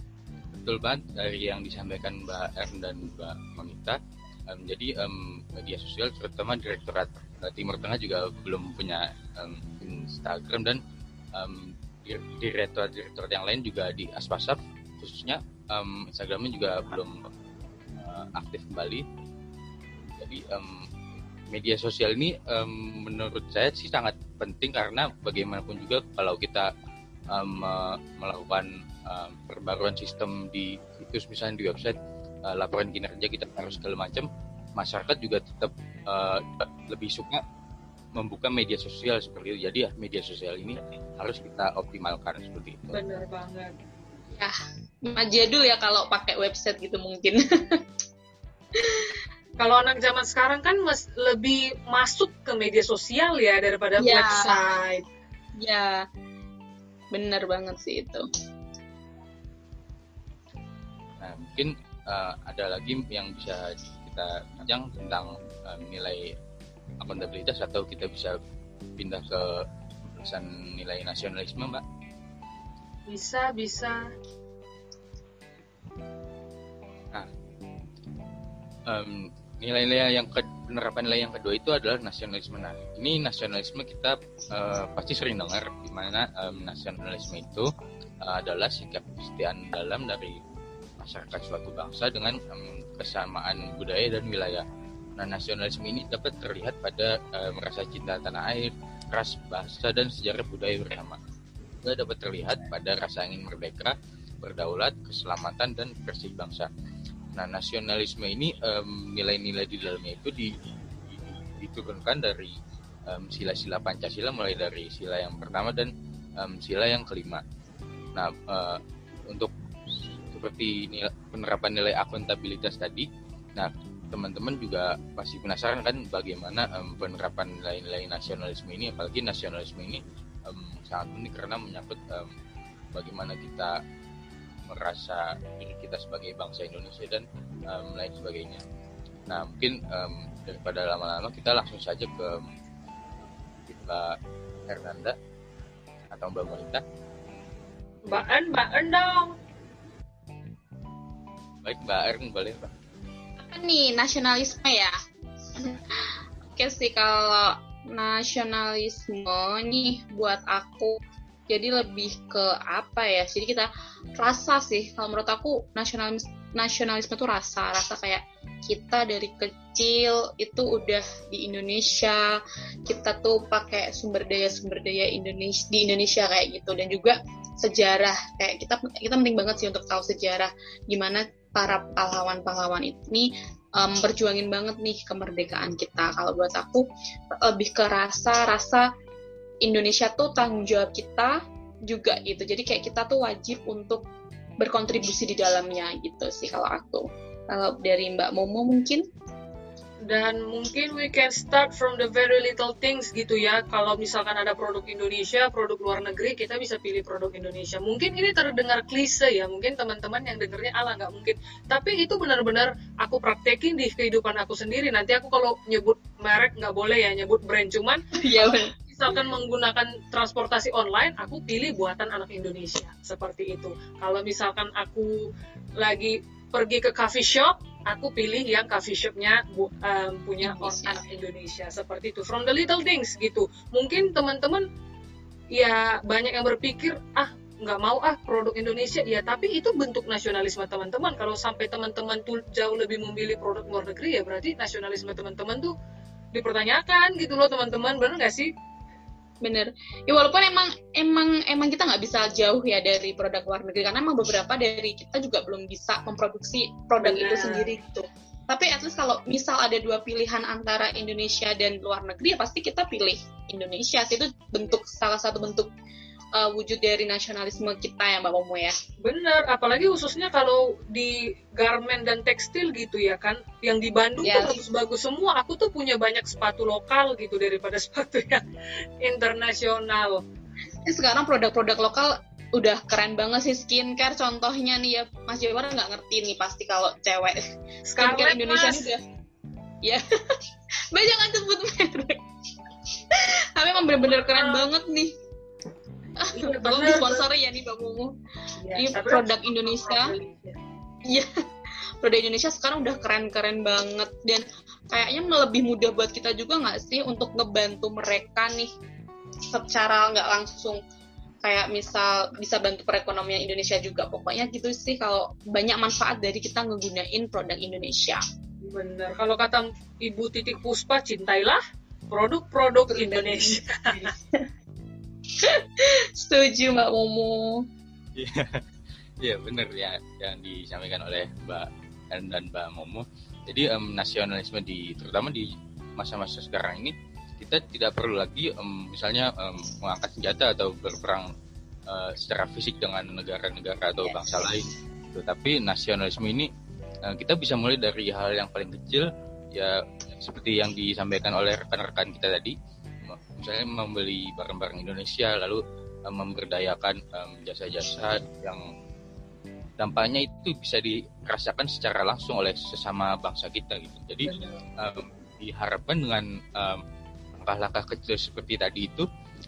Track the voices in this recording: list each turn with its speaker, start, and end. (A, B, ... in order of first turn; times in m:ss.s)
0:00.5-0:10.8 A
0:11.3-0:17.3 A
0:18.0-0:19.0 A
0:20.1-0:20.8 A
0:21.5-0:26.7 A
0:27.3-0:37.4 A
0:38.2-0:43.0 A
0:42.9-0:43.8 B
0:44.3-0:47.8 C
0:48.7-0:49.2 C
0:49.6-0:55.0 B
0:54.0-0:54.6 C
0:55.6-0:56.0 C
0:57.1-0:58.2 C
1:01.2-1:06.3 A
1:07.0-1:08.4 A
1:09.0-1:11.8 A
1:13.1-1:14.1 B
1:18.9-1:27.7 A
1:28.2-1:30.4 A
1:31.0-1:34.6 A
1:35.2-1:41.2 A
1:41.8-1:46.7 A
1:47.3-1:50.5 A
1:51.1-1:52.5 A
1:53.1-1:57.4 A
1:58.1-1:59.5 A
2:00.3-2:12.3 A
2:12.9-2:13.8 A
2:14.7-2:18.6 A
2:19.3-2:22.5 A
2:23.7-2:24.2 A
2:24.7-2:25.2 A
2:26.1-2:26.8 A
2:28.1-2:29.3 B
2:31.6-2:32.7 A
2:33.4-2:34.9 C
2:35.5-2:41.0 C
2:41.5-3:06.8 C
3:07.4-3:08.9 C
3:09.6-3:14.0 C
3:14.6-3:19.0 C
3:20.1-3:54.6 B
3:38.2-3:38.7 C
3:50.4-3:51.0 C
3:55.5-4:05.7 B
4:06.3-4:08.5 B
4:09.4-4:25.7 C
4:17.0-4:17.7 B
4:26.3-4:28.8 C
4:29.0-4:38.4 B
4:34.2-4:34.6 C
4:39.0-4:40.2 B
4:40.8-4:47.4 C
4:47.9-4:48.9 B
4:48.0-4:49.0 C
4:49.8-4:50.4 C
4:50.9-4:52.2 C
4:53.1-4:55.1 C
4:54.1-4:54.7 B
4:56.2-4:58.1 C
4:56.3-4:57.2 B
4:58.6-4:59.3 B
4:58.7-5:00.1 C
4:59.8-5:00.6 B
5:02.0-5:08.7 C
5:09.5-5:10.8 C
5:11.4-5:18.2 C
5:18.6-5:24.1 B
5:22.9-5:24.5 C
5:25.4-5:27.6 C
5:28.2-5:28.6 A
5:29.2-5:41.3 A
5:41.9-5:46.5 A
5:44.0-5:44.5 C
5:47.0-5:52.6 A
5:53.1-5:58.7 A
5:59.8-6:06.8 A
6:04.3-6:04.6 B
6:07.4-6:09.1 A